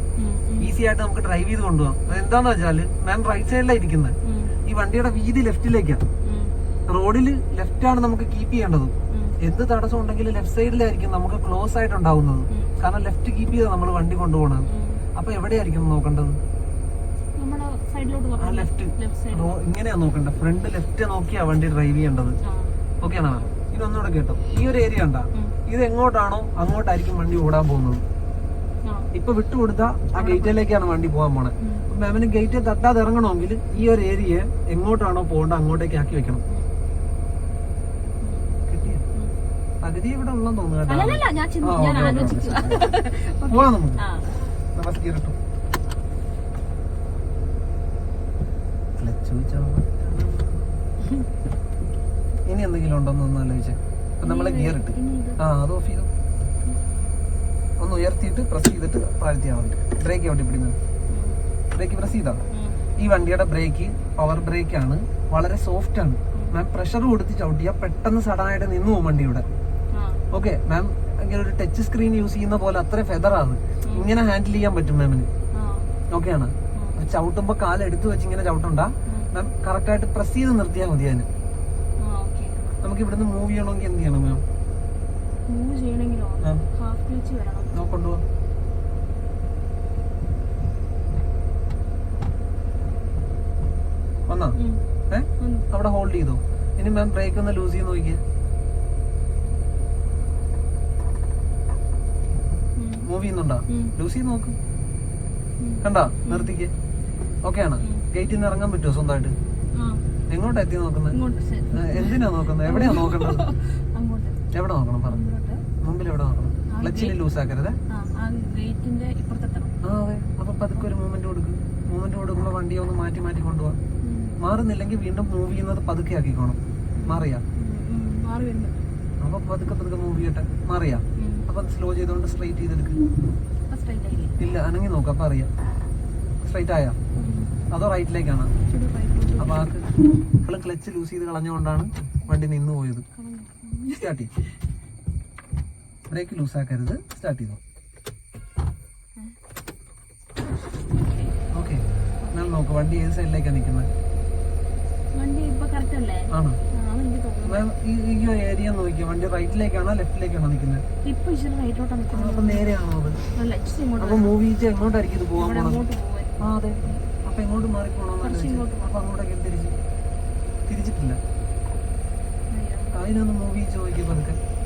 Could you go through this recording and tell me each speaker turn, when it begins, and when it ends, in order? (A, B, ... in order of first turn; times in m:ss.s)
0:00.2-0:00.7 A
0:00.6-0:06.0 B
0:04.2-0:04.6 A
0:06.2-0:06.6 A
0:06.9-0:16.4 B
0:09.1-0:09.4 A
0:14.6-0:15.0 A
0:17.4-0:19.6 A
0:18.4-0:22.4 B
0:22.4-0:22.8 A
0:23.0-0:28.0 B
0:29.1-0:36.4 B
0:30.2-0:30.6 A
0:31.6-0:31.9 A
0:36.5-0:36.7 A
0:38.2-0:38.6 A
0:38.7-0:39.0 B
0:39.8-0:44.0 B
0:40.9-0:44.3 A
0:44.8-0:45.4 B
0:49.0-0:50.8 B
0:52.5-0:56.1 B
0:54.2-0:55.4 A
0:57.8-1:00.8 B
1:01.1-1:01.4 A
1:01.8-1:02.4 B
1:02.5-1:02.8 A
1:03.0-1:09.5 B
1:09.9-1:10.2 A
1:10.3-1:15.3 B
1:13.8-1:14.1 A
1:15.5-1:15.9 A
1:16.1-1:21.3 B
1:16.7-1:17.0 A
1:22.0-1:22.7 A
1:22.8-1:24.4 B
1:25.5-1:27.9 A
1:27.7-1:28.2 B
1:34.3-1:34.6 B
1:34.6-1:34.8 A
1:35.1-1:38.2 B
1:35.4-1:35.6 A
1:42.8-1:43.1 A
1:43.0-1:44.6 B
1:43.7-1:43.9 A
1:45.6-1:46.5 A
1:45.8-1:46.7 B
1:47.4-1:49.4 B
1:47.8-1:48.0 A
1:49.8-1:50.0 A
1:50.3-1:51.2 B
1:51.1-1:54.4 A
1:51.7-1:53.5 B
1:54.5-1:55.2 B
1:55.1-1:55.6 A
1:55.8-1:57.8 B
1:56.7-1:57.2 A
1:57.9-1:59.8 A
1:59.8-2:03.8 B
2:04.0-2:04.4 A
2:04.4-2:07.4 B
2:07.0-2:08.8 A
2:09.2-2:13.0 B
2:11.2-2:11.5 A
2:13.7-2:14.4 A
2:14.4-2:15.5 B
2:16.4-2:17.0 B
2:17.2-2:17.6 A
2:17.7-2:18.5 B
2:18.6-2:19.7 A
2:19.4-2:19.9 B
2:20.4-2:23.0 B
2:23.1-2:24.0 A
2:23.9-2:24.3 B
2:26.1-2:27.6 B
2:31.5-2:33.9 B
2:32.2-2:32.5 A
2:35.1-2:37.6 A
2:36.3-2:36.6 B
2:37.4-2:40.8 B
2:41.0-2:42.7 A
2:42.1-2:43.2 B
2:43.3-2:44.4 A
2:44.0-2:45.8 B
2:45.4-2:46.4 A
2:46.4-2:49.8 B
2:48.2-2:49.0 A
2:50.7-2:51.2 B
2:52.5-2:52.9 A
2:52.9-2:54.4 B